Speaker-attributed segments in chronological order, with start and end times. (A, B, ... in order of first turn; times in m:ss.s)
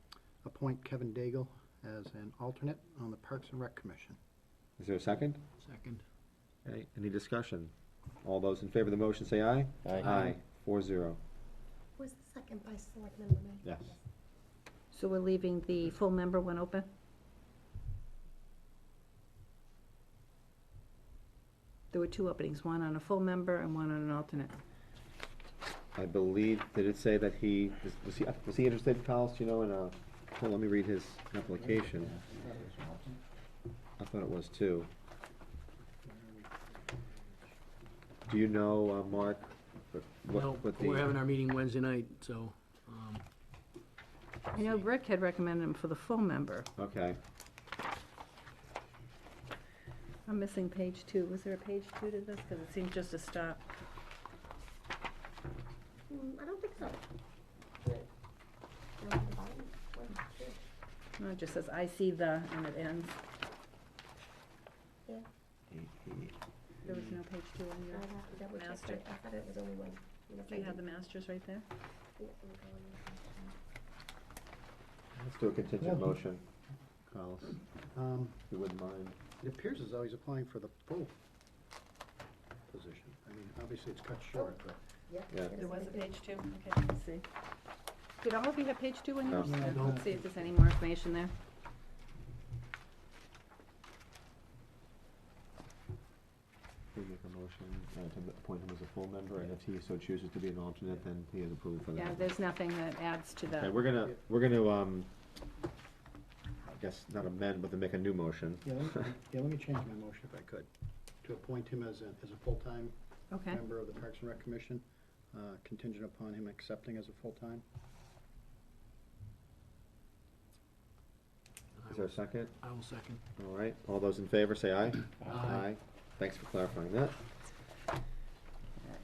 0:00.4-0:04.2 A
0:04.8-0:05.4 B
0:05.6-0:06.0 C
0:06.6-0:11.2 B
0:12.0-0:14.0 D
0:13.6-0:14.0 B
0:14.9-0:16.9 E
0:21.9-0:24.6 E
0:26.0-0:32.2 B
0:32.3-0:33.1 A
0:34.0-0:34.9 B
0:36.1-0:36.4 A
0:38.3-0:41.1 B
0:40.3-0:43.2 C
0:44.5-0:46.7 E
0:46.8-0:47.2 B
0:50.3-0:53.6 E
0:56.1-0:57.0 D
0:57.8-0:58.1 D
0:59.0-1:00.6 D
1:01.2-1:03.2 E
1:05.7-1:06.3 B
1:06.8-1:09.0 E
1:07.9-1:10.8 D
1:10.5-1:11.7 E
1:12.2-1:13.6 D
1:15.2-1:16.4 B
1:17.1-1:17.6 B
1:17.9-1:18.4 A
1:18.5-1:19.2 B
1:19.4-1:21.2 A
1:22.7-1:24.8 A
1:24.3-1:26.2 D
1:25.6-1:27.3 E
1:28.2-1:31.3 E
1:29.3-1:29.6 B
1:29.4-1:30.4 A
1:37.0-1:42.3 B
1:42.0-1:43.8 E
1:43.6-1:45.1 B
1:46.6-1:48.8 B
1:48.6-1:50.7 A
1:51.2-1:52.9 A
1:53.3-1:53.6 E
1:53.5-1:57.6 A
2:01.8-2:03.2 C
2:01.9-2:02.6 B
2:03.4-2:07.2 B
2:05.3-2:05.6 C